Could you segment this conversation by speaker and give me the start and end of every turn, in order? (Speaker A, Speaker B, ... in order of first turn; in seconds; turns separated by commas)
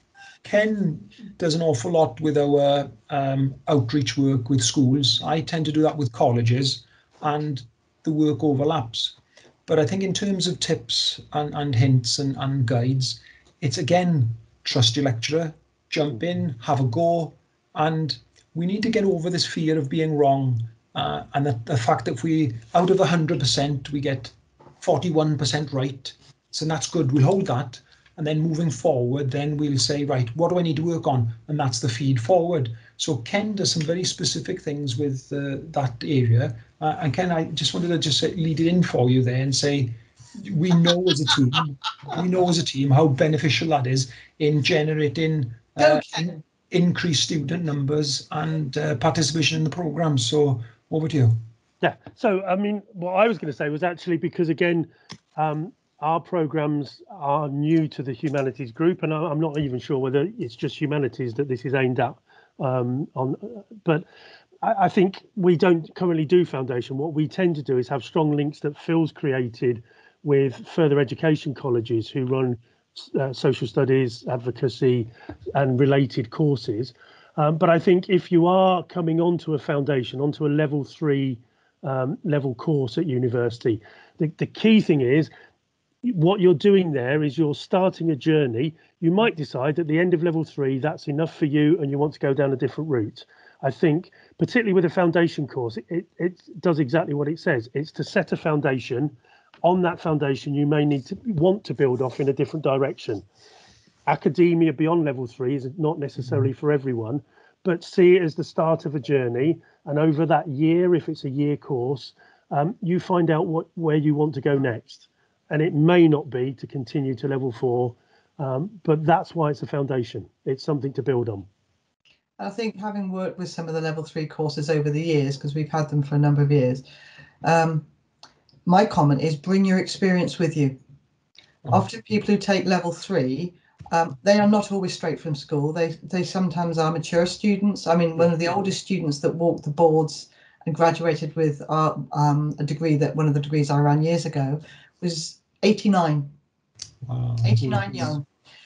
Speaker A: 0.4-51.4, Speaker B: 45.8-46.4, Speaker C: 51.8-64.0, Speaker C: 64.6-85.3, Speaker C: 86.0-99.1, Speaker C: 99.6-103.2, Speaker C: 104.0-121.5, Speaker B: 122.4-126.8, Speaker B: 127.4-127.9, Speaker B: 128.7-130.8, Speaker B: 131.7-146.3, Speaker A: 147.0-148.2, Speaker B: 147.4-148.2